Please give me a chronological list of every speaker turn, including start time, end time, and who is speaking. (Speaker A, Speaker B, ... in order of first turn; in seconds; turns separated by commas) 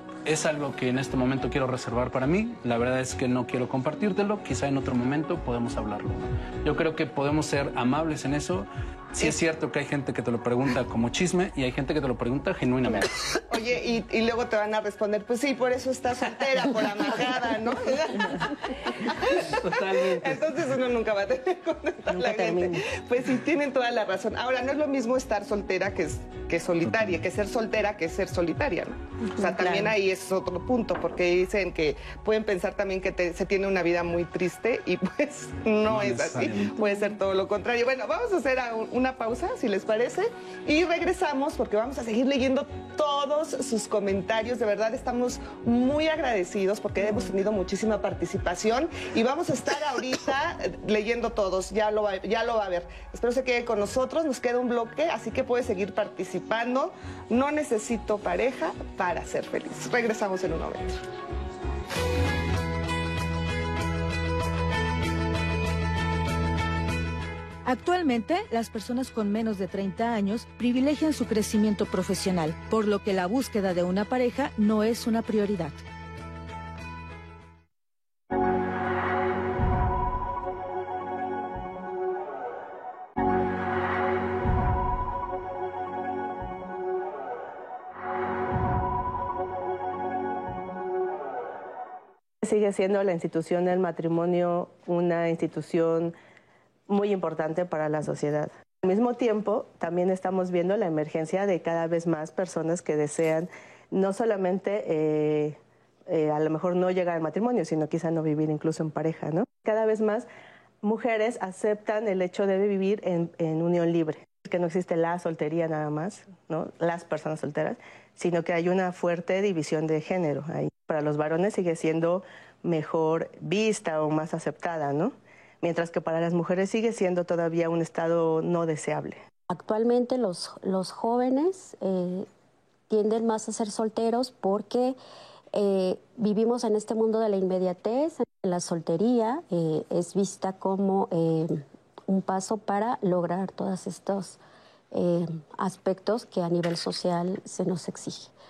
Speaker A: 0.2-13.2, Speaker B: 13.0-61.0, Speaker A: 19.1-20.4, Speaker A: 35.9-36.8, Speaker C: 67.7-75.8, Speaker D: 92.4-96.2, Speaker D: 96.9-110.3, Speaker D: 110.8-129.2, Speaker E: 129.5-132.3, Speaker E: 132.9-135.0, Speaker E: 135.5-144.4, Speaker E: 144.9-148.3